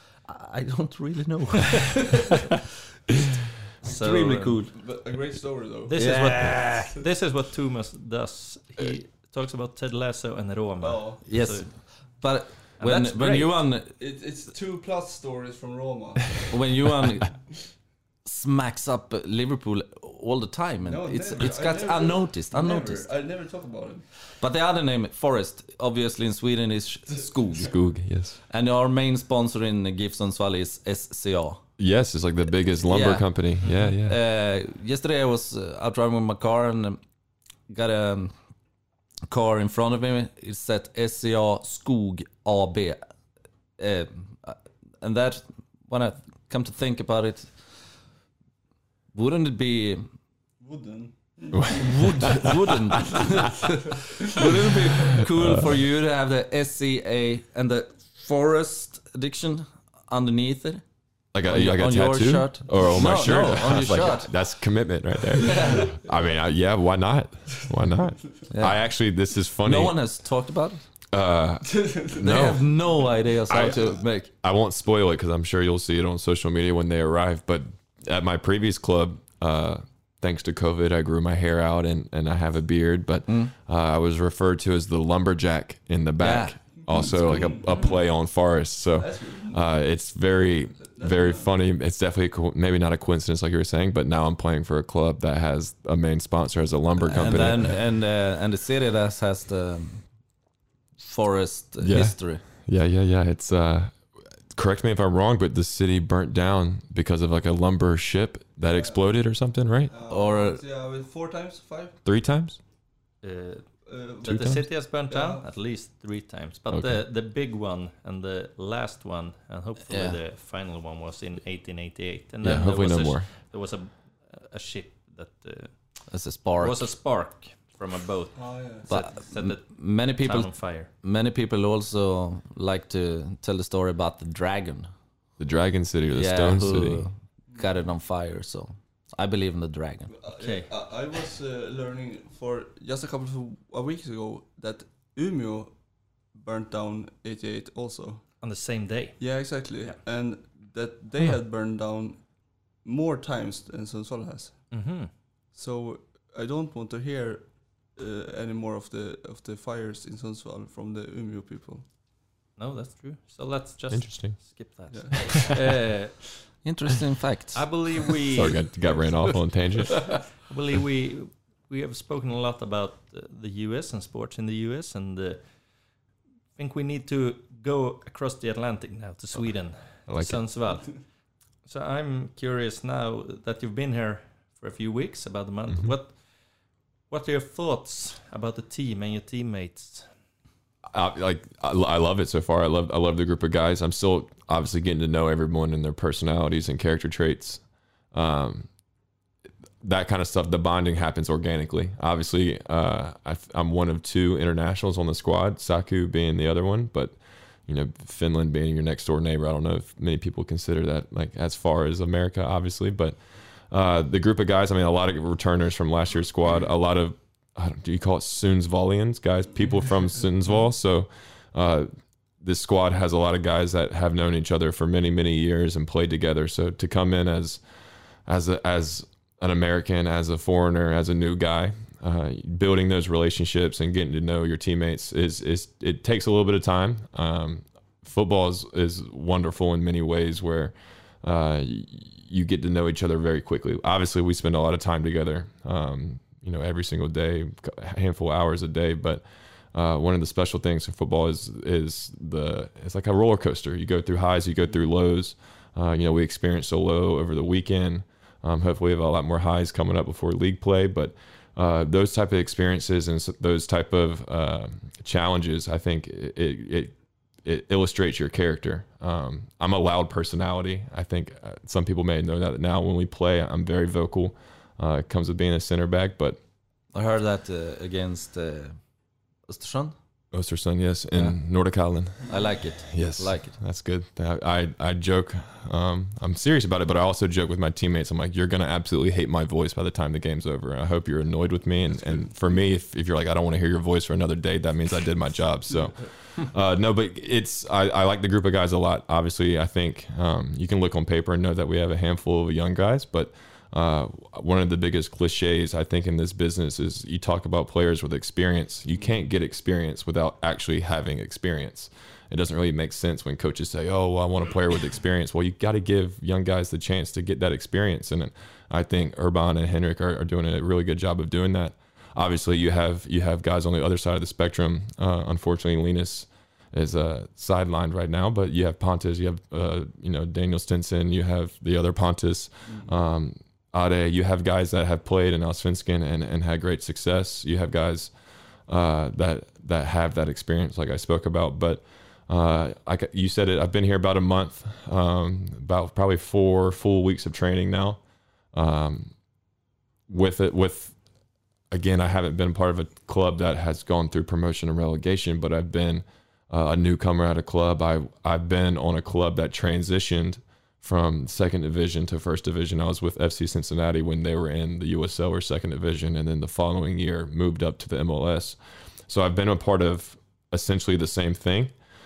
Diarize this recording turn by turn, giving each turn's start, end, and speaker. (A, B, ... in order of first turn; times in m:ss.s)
0:00.2-0:02.3 A
0:03.8-0:04.7 B
0:03.8-0:06.6 C
0:03.9-0:04.6 A
0:05.8-0:12.2 B
0:06.0-0:07.0 A
0:10.8-0:11.2 C
0:11.2-0:13.9 A
0:12.8-0:13.6 B
0:14.0-0:16.5 C
0:16.5-0:17.6 A
0:18.2-0:23.1 A
0:20.8-0:24.1 C
0:24.3-0:27.8 A
0:27.6-0:28.4 D
0:28.4-0:31.6 A
0:31.8-0:34.2 D
0:32.8-0:37.0 A
0:33.6-0:33.9 B
0:37.7-0:38.3 A
0:39.3-0:43.0 A
0:43.8-0:47.8 A
0:49.1-0:50.0 A
0:50.6-0:52.4 C
0:51.5-0:53.2 D
0:51.8-1:04.5 A
0:55.1-0:55.8 D
1:01.3-1:10.1 D
1:03.1-1:03.6 C
1:05.3-1:06.0 A
1:05.6-1:05.8 C
1:08.5-1:10.9 A
1:11.1-1:37.9 D
1:11.6-1:12.1 C
1:12.2-1:14.3 A
1:23.3-1:23.5 A
1:26.2-1:27.6 A
1:26.8-1:28.0 C
1:29.0-1:29.6 C
1:30.8-1:31.5 C
1:37.0-1:40.1 A
1:41.0-1:42.5 A
1:41.8-1:49.9 D
1:48.6-1:52.0 C
1:50.0-1:50.6 A
1:52.0-1:52.6 D
1:53.2-2:06.1 B
1:53.8-1:55.4 C
1:54.2-1:54.6 D
1:56.7-1:57.0 D
1:59.9-2:00.2 A
2:02.4-2:03.3 D
2:06.1-2:06.9 A
2:06.6-2:10.9 B
2:08.3-2:09.1 C
2:08.9-2:14.9 A
2:15.4-2:17.1 D
2:16.1-2:20.1 A
2:20.1-2:28.5 C
2:20.4-2:20.7 B
2:28.4-2:30.0 B
2:29.2-2:41.9 C
2:34.7-2:35.1 B
2:42.6-2:46.5 B
2:43.9-2:44.5 D
2:44.9-2:45.2 C
2:46.6-2:48.1 A
2:47.5-2:48.6 B
2:48.3-2:50.0 D
2:50.4-2:56.0 B
2:56.5-3:10.1 B
2:59.3-3:00.8 D
3:10.9-3:18.7 D
3:19.8-3:41.9 D
3:42.4-3:47.6 D
3:48.2-4:36.4 D
4:36.9-4:38.8 A
4:39.4-4:40.0 A
4:40.3-5:49.1 D
4:41.1-4:41.4 A
4:42.2-4:43.6 A
5:32.6-5:32.9 C
5:50.1-5:51.0 D
5:51.7-6:11.7 D